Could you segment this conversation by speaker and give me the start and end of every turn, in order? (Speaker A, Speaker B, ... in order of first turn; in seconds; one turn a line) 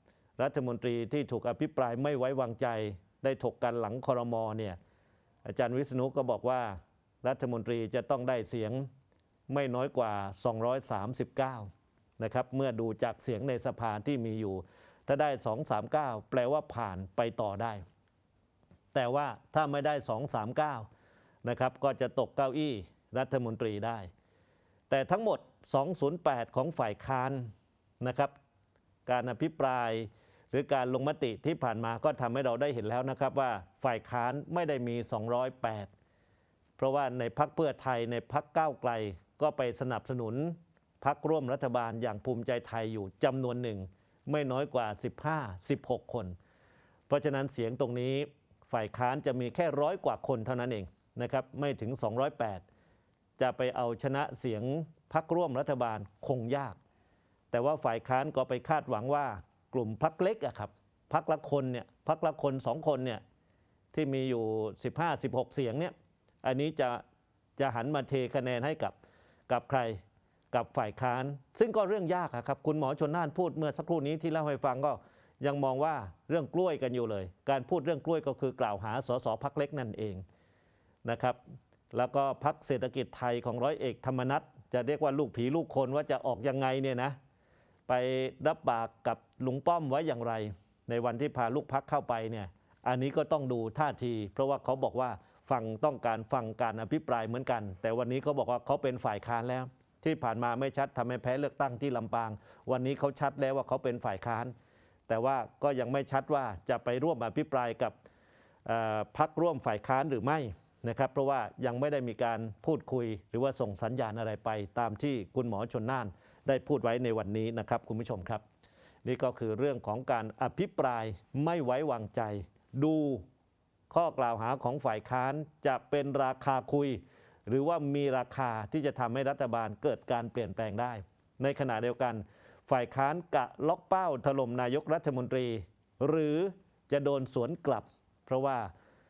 Speaker A: 0.4-4.8
Speaker A: 5.4-8.9
Speaker A: 9.5-17.8
Speaker A: 18.9-20.9
Speaker A: 21.4-24.1
Speaker A: 24.9-27.5
Speaker A: 28.0-28.3
Speaker A: 29.1-35.9
Speaker A: 36.8-46.3
Speaker A: 47.1-52.6
Speaker A: 53.4-56.8
Speaker A: 57.5-63.2
Speaker A: 63.9-67.0
Speaker A: 67.6-68.9
Speaker A: 69.5-70.0
Speaker A: 70.5-80.2
Speaker A: 81.0-81.4
Speaker A: 81.9-87.2
Speaker A: 87.9-104.5
Speaker A: 105.1-108.0
Speaker A: 108.6-118.4
Speaker A: 119.0-123.2
Speaker A: 123.9-138.7